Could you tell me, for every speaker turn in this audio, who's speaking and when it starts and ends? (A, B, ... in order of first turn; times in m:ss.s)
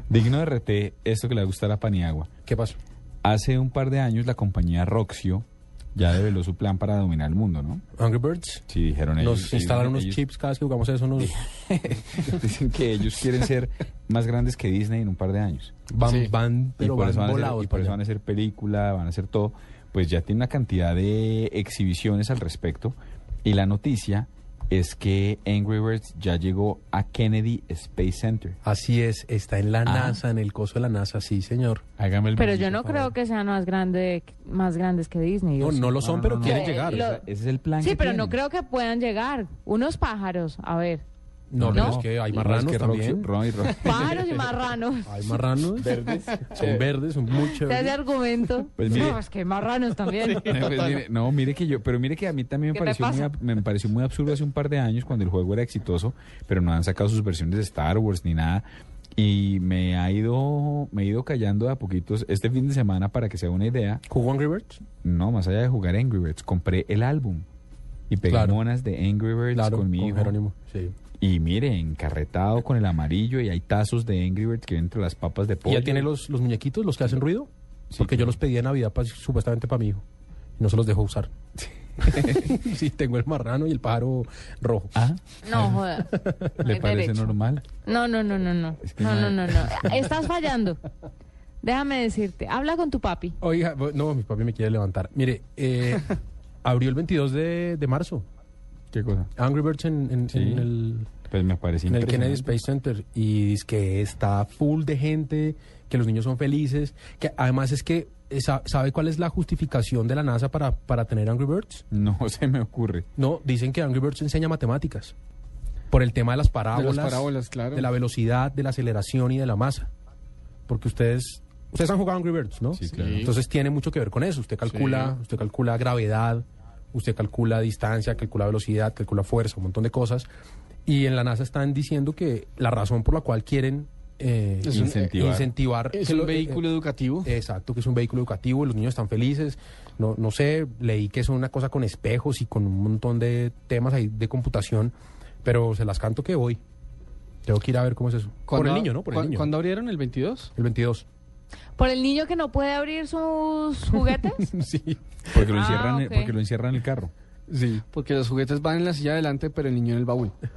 0:00.1-0:02.3 A
0:02.4-0:02.8 B
0:03.2-0:07.8 A
0:08.0-0:08.6 B
0:08.7-0:10.2 A
0:09.2-0:11.3 B
0:11.2-0:15.7 A
0:15.9-0:18.0 B
0:16.0-0:16.3 C
0:16.8-0:28.6 A
0:28.6-0:31.8 B
0:29.8-0:30.2 A
0:32.0-0:33.1 A
0:32.4-0:37.2 D
0:35.6-0:37.1 B
0:36.0-0:38.4 A
0:37.8-0:41.0 D
0:41.5-0:43.3 B
0:41.6-0:44.4 A
0:43.6-0:44.3 C
0:43.8-0:45.1 D
0:45.0-0:46.0 B
0:45.8-0:46.9 A
0:46.0-0:46.6 C
0:46.5-0:48.0 B
0:47.6-0:50.7 D
0:48.8-0:49.2 A
0:48.9-0:49.2 B
0:50.1-0:51.0 C
0:50.4-1:04.0 A
0:52.7-0:53.3 D
1:04.1-1:04.8 B
1:05.0-1:07.4 A
1:08.1-1:10.3 A
1:08.3-1:08.6 B
1:09.5-1:10.9 B
1:11.2-1:16.1 A
1:15.6-1:20.0 B
1:17.9-1:18.4 A
1:20.6-1:21.3 B
1:22.0-1:24.9 B
1:22.0-1:22.5 A
1:25.0-1:25.8 A
1:25.4-1:30.8 D
1:25.6-1:26.7 B
1:26.6-1:27.6 A
1:28.8-1:30.1 A
1:31.6-1:33.4 D
1:33.4-1:36.1 B
1:36.6-1:38.2 B
1:38.9-1:39.3 A
1:39.4-1:41.1 B
1:40.3-1:40.7 A
1:41.3-1:42.5 A
1:41.9-1:51.8 B
1:51.9-1:53.1 A
1:53.2-1:55.1 B
1:55.9-1:59.9 B
1:56.7-1:57.9 C
2:00.7-2:10.3 B
2:02.7-2:03.2 A
2:02.9-2:03.3 C
2:04.7-2:05.1 C
2:10.8-2:16.6 B
2:14.6-2:15.2 C
2:14.7-2:15.5 A
2:15.9-2:17.4 C
2:17.2-2:26.6 B
2:27.4-2:29.5 B
2:28.5-2:30.5 C
2:30.6-2:31.0 B
2:31.8-2:34.4 D
2:34.0-2:35.5 B
2:35.3-2:37.1 A
2:35.5-2:36.3 D
2:37.5-2:40.3 C